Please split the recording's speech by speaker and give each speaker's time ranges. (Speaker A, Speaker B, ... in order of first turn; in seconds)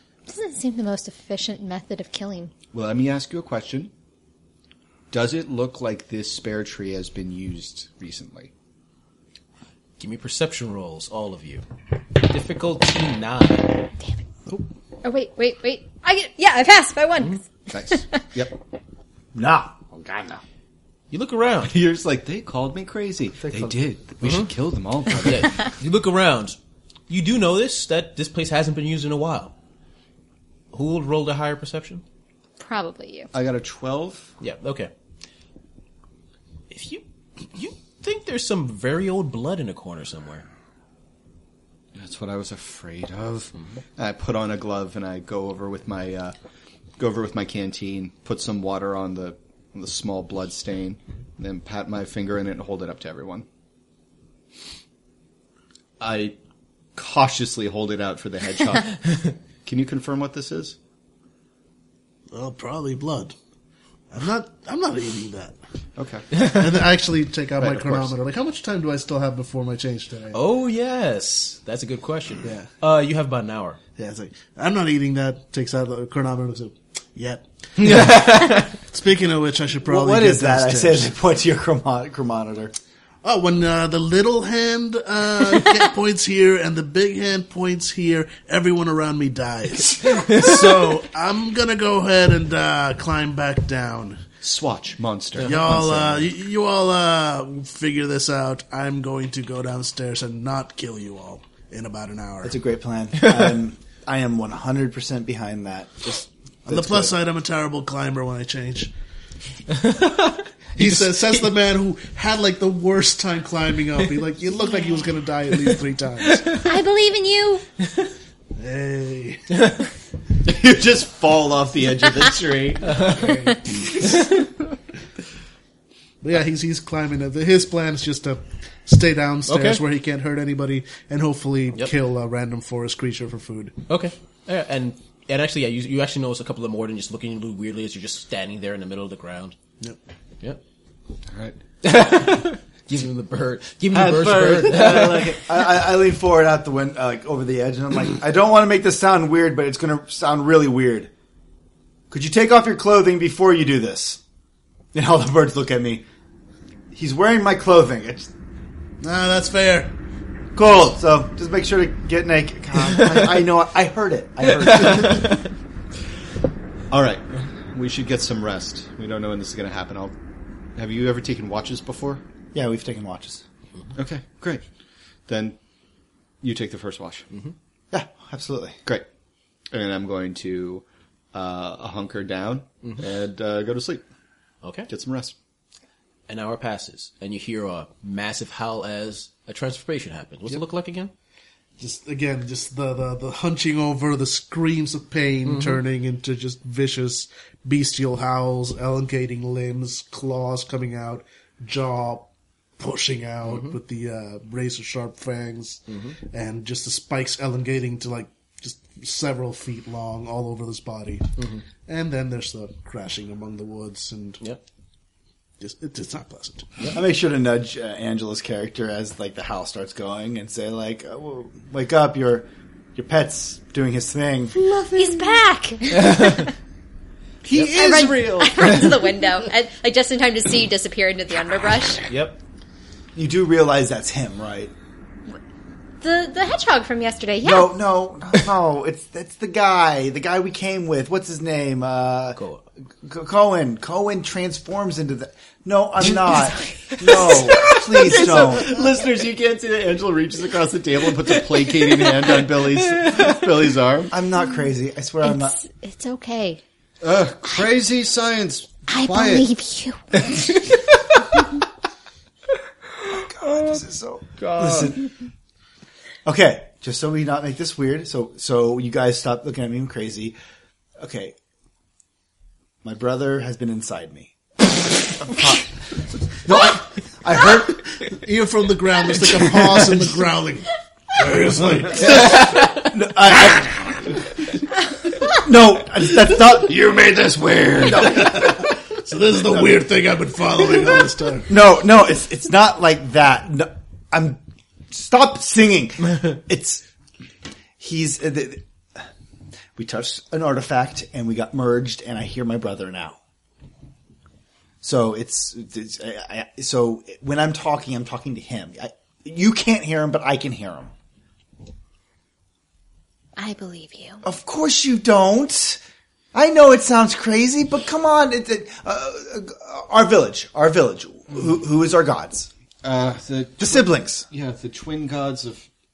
Speaker A: 0.3-2.5, 15.0-18.0, 32.6-33.3, 116.6-117.7, 224.9-226.5, 227.6-232.1, 236.0-237.7, 255.2-256.6, 258.9-260.3, 313.4-314.2
Speaker B: 2.7-3.9, 5.1-8.5, 17.7-18.6, 21.6-25.7, 33.3-34.3, 42.0-46.3, 47.0-53.5, 56.0-56.4, 57.0-60.8, 66.0-66.5, 67.6-68.1, 77.8-78.3, 94.4-96.3, 120.4-123.2, 123.8-124.4, 144.0-145.4, 166.9-170.1, 170.8-172.2, 174.0-174.6, 175.3-175.6, 176.4-177.3, 179.7-184.0, 184.9-185.3, 227.4-229.0, 247.0-254.1, 257.0-259.5, 260.2-260.8, 263.4-263.8, 264.4-264.9, 286.6-288.4, 322.8-325.7
Speaker C: 10.0-11.6, 12.2-13.9, 21.1-21.8, 24.2-24.5, 25.2-26.6, 27.1-29.5, 30.7-32.0, 34.4-34.9, 36.7-40.5, 70.3-73.8, 78.1-78.6, 109.7-111.5, 122.9-123.3, 129.5-129.8, 133.9-139.6, 141.8-145.4, 184.6-184.9, 186.3-191.1, 195.4-195.8, 203.4-203.8, 205.9-206.2, 211.4-211.7, 226.1-226.4, 232.1-232.4, 242.4-242.6, 247.3-248.4, 251.2-253.4
Speaker D: 19.3-20.4, 23.4-23.8, 79.8-82.7, 102.4-107.2, 144.6-151.1, 152.1-154.2, 154.9-156.0, 156.9-158.3, 160.6-165.3, 172.5-173.4, 177.9-178.8, 216.9-224.6, 233.2-234.7, 237.4-242.4, 243.0-248.8, 254.1-255.6, 263.1-265.0, 266.2-270.4, 271.0-271.4, 272.8-275.7, 276.2-278.0, 282.1-284.0, 285.3-286.8, 287.9-288.4, 291.5-294.4, 294.9-296.8, 297.8-299.1, 299.8-303.2, 304.8-310.9, 314.2-315.8, 316.3-322.5, 323.6-324.3
Speaker E: 62.3-63.4, 64.1-65.6, 66.3-70.4, 72.4-72.7, 74.0-81.1, 83.2-94.2, 95.4-102.6, 106.7-108.9, 110.8-116.6, 118.6-119.7, 122.9-123.9, 126.2-133.8, 159.0-159.9, 191.8-214.4, 215.6-216.9, 278.1-282.5, 288.1-291.5